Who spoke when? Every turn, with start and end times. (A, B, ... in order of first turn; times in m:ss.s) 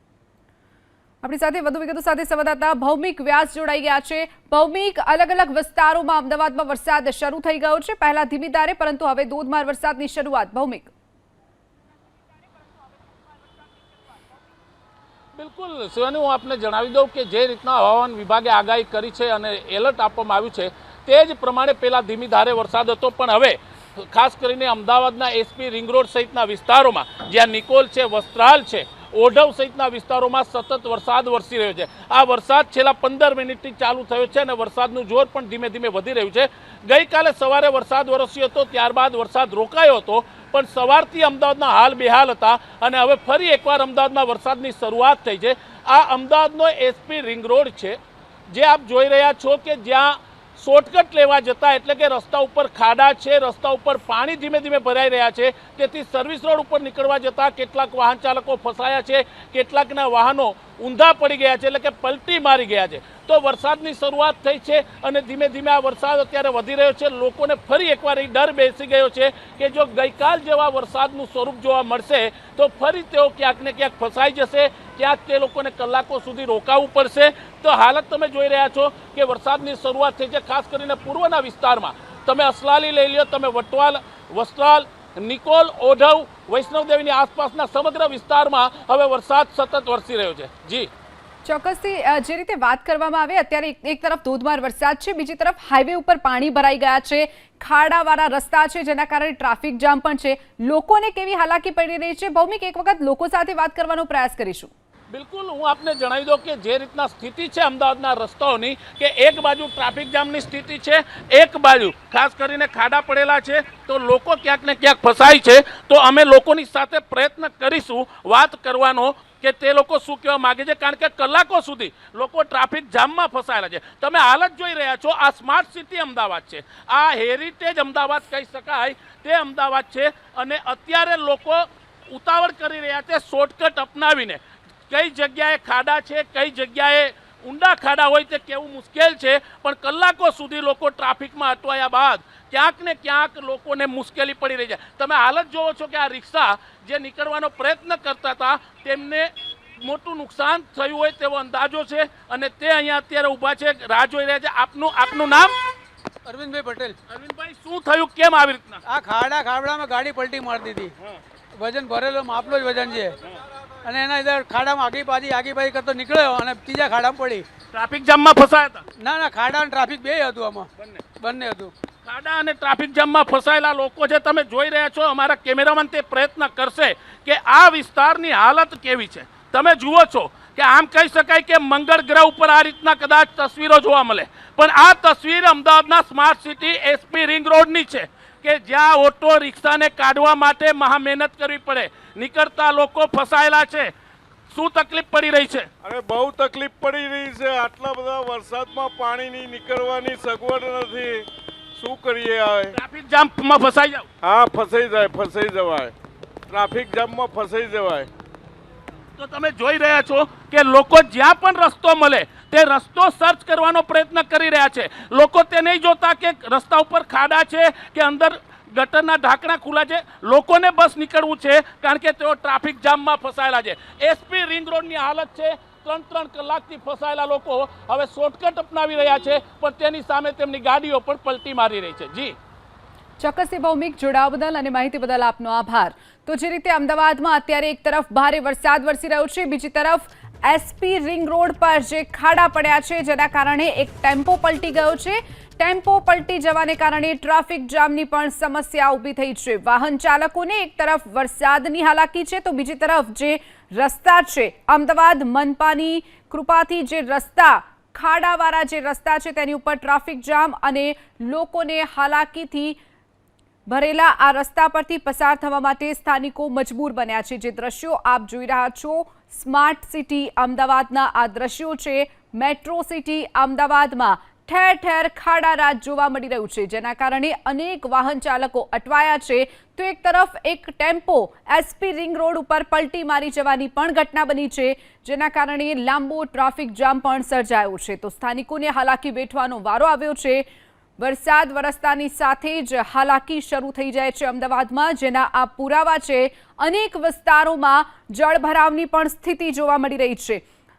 0:01.2-0:10.9 A
0:15.4-0:48.0 B
0:48.5-1:30.9 B
1:31.4-1:44.7 A
1:45.1-2:35.6 B
2:36.3-2:37.0 C
2:37.1-2:38.8 B
2:38.9-2:40.9 C
2:41.6-2:43.2 C
2:43.8-2:47.5 C
2:47.7-2:48.8 B
2:49.0-2:50.7 C
2:50.8-2:51.0 B
2:51.2-2:51.7 C
2:52.0-3:13.9 B
3:14.5-3:15.7 B
3:15.8-3:22.8 D
3:22.7-3:24.1 B
3:24.2-3:25.9 D
3:26.5-3:28.1 D
3:29.2-3:52.4 B
3:53.2-4:22.8 A
4:23.7-4:50.4 A
4:51.0-5:00.4 A